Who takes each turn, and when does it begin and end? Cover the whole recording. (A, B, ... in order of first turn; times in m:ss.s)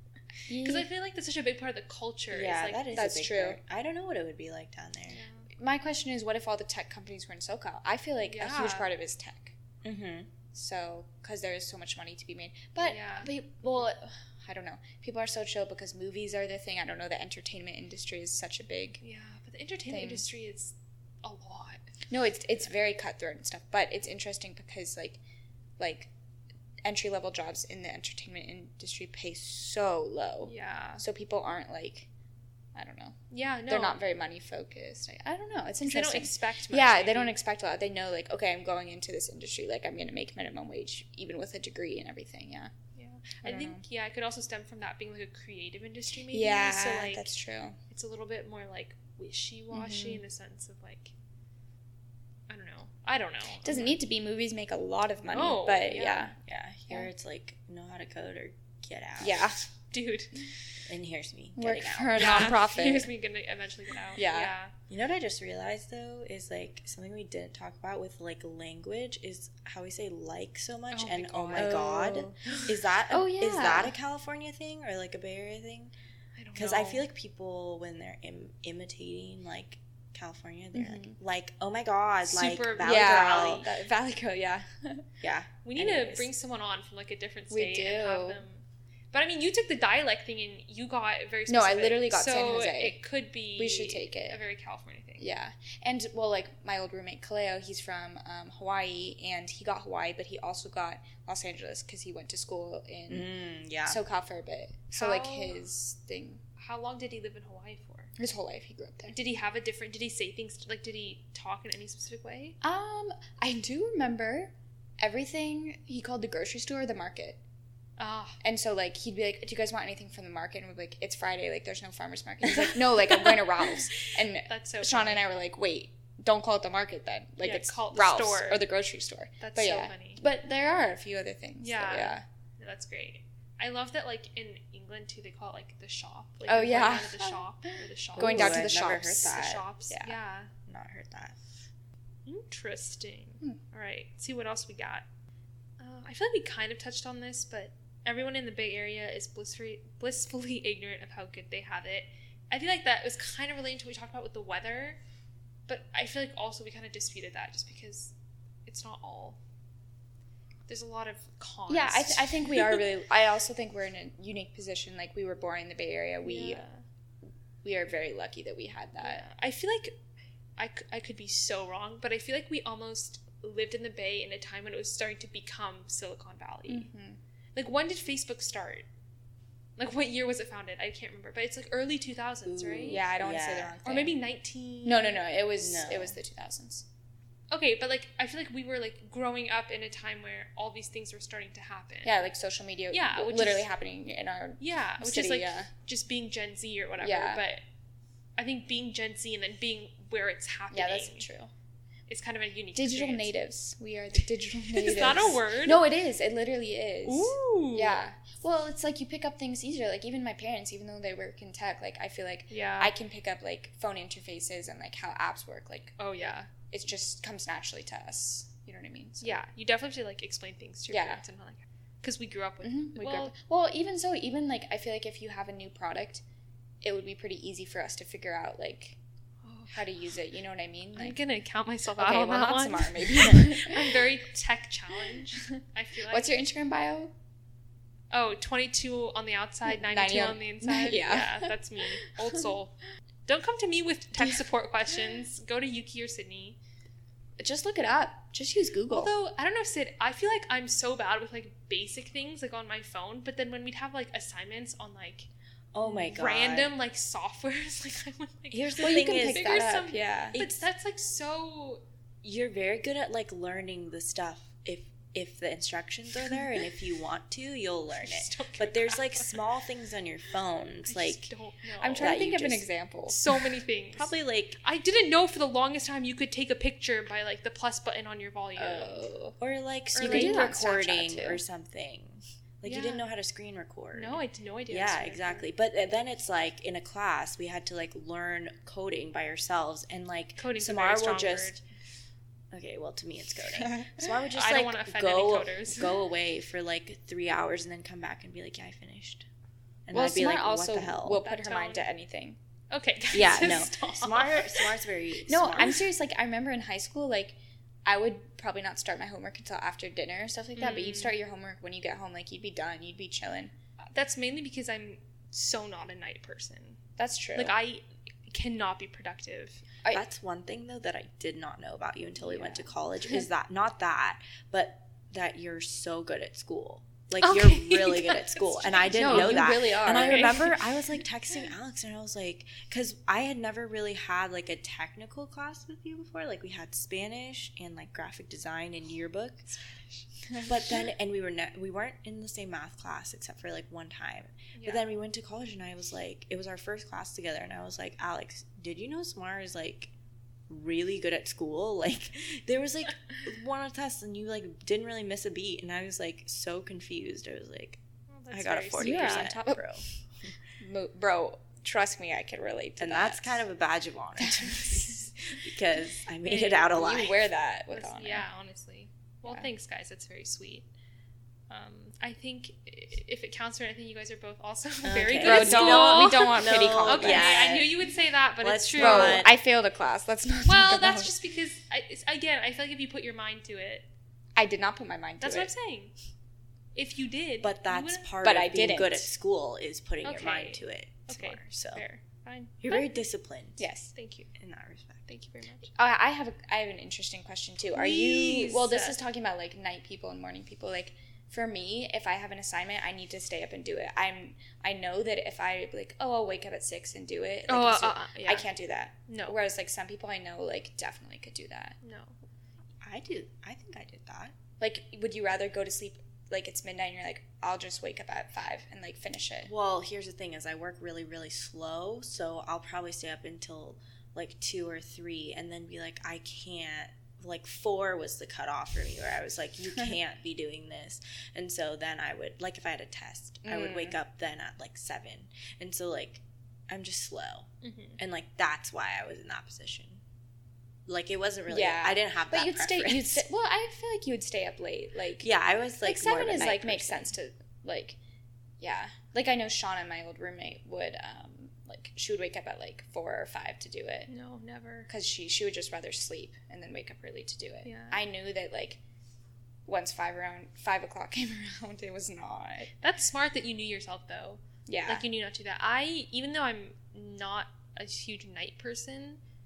0:00.5-0:00.9 A
0:00.6-0:02.8 B
0:02.3-0:05.2 C
0:02.9-0:03.6 A
0:05.1-0:05.4 B
0:05.6-0:09.6 A
0:08.3-0:08.9 B
0:09.8-0:10.3 C
0:10.5-0:19.0 A
0:12.8-0:13.3 B
0:19.0-0:21.8 B
0:19.9-0:20.2 A
0:22.1-0:25.2 A
0:25.8-0:26.1 A
0:26.8-0:32.1 A
0:30.4-0:31.0 B
0:32.7-0:33.2 A
0:33.3-0:34.0 B
0:33.7-0:42.7 A
0:35.8-0:37.4 B
0:43.0-0:47.3 B
0:43.4-0:43.8 A
0:46.3-0:47.8 A
0:47.9-0:51.1 B
0:49.7-0:50.2 A
0:52.5-0:54.0 B
0:53.6-0:56.3 A
0:55.3-0:56.3 B
0:56.4-0:59.4 C
0:59.2-0:59.6 A
0:59.9-1:00.3 B
1:00.9-1:02.6 C
1:01.6-1:03.1 A
1:02.1-1:04.7 B
1:04.1-1:04.5 A
1:04.9-1:15.9 C
1:10.9-1:11.8 B
1:11.6-1:14.0 A
1:16.4-1:17.0 B
1:16.6-1:23.6 C
1:20.7-1:21.2 A
1:22.2-1:23.7 B
1:22.8-1:25.0 A
1:25.2-1:26.3 C
1:25.6-1:35.3 B
1:27.5-1:28.4 A
1:31.5-1:33.0 A
1:33.6-1:34.4 A
1:35.2-1:43.3 A
1:43.1-1:44.0 C
1:43.8-1:46.4 A
1:44.9-1:45.6 B
1:46.6-1:48.1 B
1:48.2-1:49.1 A
1:49.1-1:52.6 B
1:52.6-1:57.4 A
1:58.0-1:58.4 B
1:58.4-2:12.2 A
2:04.5-2:05.2 B
2:07.4-2:08.6 B
2:09.4-2:10.2 B
2:11.6-2:18.7 B
2:16.5-2:17.4 A
2:18.2-2:20.2 A
2:18.2-2:19.6 C
2:19.3-2:20.5 B
2:20.7-2:21.4 C
2:22.3-2:25.0 B
2:25.8-2:35.0 B
2:35.7-2:38.1 B
2:38.7-2:39.4 B
2:40.7-2:42.8 B
2:41.7-2:46.6 A
2:46.2-2:46.8 B
2:47.6-2:49.2 A
2:49.0-2:50.0 B
2:50.6-2:56.9 B
2:56.7-2:57.2 A
2:57.6-2:58.9 B
2:59.8-3:03.0 B
3:02.4-3:03.8 C
3:02.9-3:04.2 A
3:03.8-3:05.2 B
3:04.8-3:06.8 A
3:05.6-3:06.2 C
3:07.5-3:12.2 B
3:12.0-3:15.7 A
3:12.9-3:13.7 B
3:14.6-3:17.6 B
3:17.0-3:17.4 A
3:18.4-3:21.3 B
3:20.7-3:21.5 A
3:22.1-3:23.3 B
3:22.7-3:36.0 A
3:24.7-3:25.8 B
3:27.0-3:28.0 B
3:32.5-3:32.9 B
3:36.0-3:36.5 B
3:36.7-3:39.4 A
3:39.2-3:43.3 B
3:40.9-3:41.2 A
3:42.6-3:46.2 A
3:46.8-3:49.0 A
3:49.4-3:49.9 B
3:49.7-3:51.2 A
3:51.0-3:56.3 B
3:52.0-3:54.0 A
3:56.1-3:57.1 A
3:58.1-4:02.7 B
3:59.7-4:02.5 A
4:03.3-4:06.6 B
4:07.4-4:09.1 A
4:08.9-4:15.3 B
4:15.7-4:16.7 C
4:15.8-4:21.8 B
4:18.5-4:19.8 C
4:18.8-4:20.4 A
4:22.2-4:31.3 C
4:27.9-4:29.4 B
4:30.8-4:32.2 B
4:31.8-4:33.2 A
4:32.0-4:32.7 C
4:33.1-4:39.1 B
4:34.0-4:34.6 C
4:38.6-4:39.4 A
4:39.4-4:51.6 C
4:39.9-4:40.6 B
4:40.0-4:41.4 A
4:42.6-4:43.0 B
4:43.9-4:45.5 B
4:50.4-4:51.6 B
4:52.5-4:59.3 C
4:53.7-4:54.1 A
4:54.3-4:55.9 B
4:59.9-5:01.2 C
4:59.9-5:02.4 A
5:01.2-5:01.9 B
5:02.7-5:04.7 B
5:03.1-5:05.8 C
5:05.3-5:13.5 A
5:10.6-5:11.1 B
5:13.9-5:16.8 B
5:17.0-5:17.6 A
5:17.3-5:19.6 B
5:19.9-5:39.5 C
5:22.2-5:22.7 A
5:27.2-5:30.6 B
5:28.9-5:30.5 A
5:40.4-5:49.9 C
5:44.6-5:44.9 B
5:50.5-5:59.8 C
5:58.1-5:59.3 B
5:58.8-5:59.6 A
6:00.6-6:03.4 A
6:02.8-6:07.3 C
6:04.2-6:05.0 A
6:06.3-6:08.3 A
6:07.7-6:10.7 B
6:11.5-6:19.3 B
6:14.8-6:17.8 C
6:15.2-6:17.4 A
6:18.4-6:19.3 C
6:18.8-6:21.1 A
6:20.4-6:23.9 B
6:24.4-6:25.5 A
6:25.2-6:25.9 B
6:26.7-6:28.1 B
6:27.4-6:31.8 C
6:28.2-6:29.1 A
6:30.0-6:32.9 B
6:32.6-6:33.7 C
6:33.6-6:33.9 A
6:33.9-6:34.3 B
6:34.4-6:35.1 C
6:35.1-6:35.7 B
6:35.7-6:51.8 A
6:37.7-6:39.0 B
6:47.5-6:48.5 B
6:49.1-6:49.4 B
6:51.8-6:52.2 B
6:52.8-6:54.3 C
6:54.6-6:59.5 A
6:59.4-7:20.0 C
7:13.4-7:14.0 A
7:17.6-7:18.0 B
7:20.9-7:23.2 C
7:21.5-7:25.3 A
7:25.2-7:27.1 C
7:25.8-7:28.0 A
7:28.6-7:34.1 A
7:34.1-7:34.9 B
7:34.9-7:38.8 A
7:37.6-7:38.0 B
7:39.7-7:42.7 A
7:42.8-7:49.2 B
7:44.7-7:45.0 A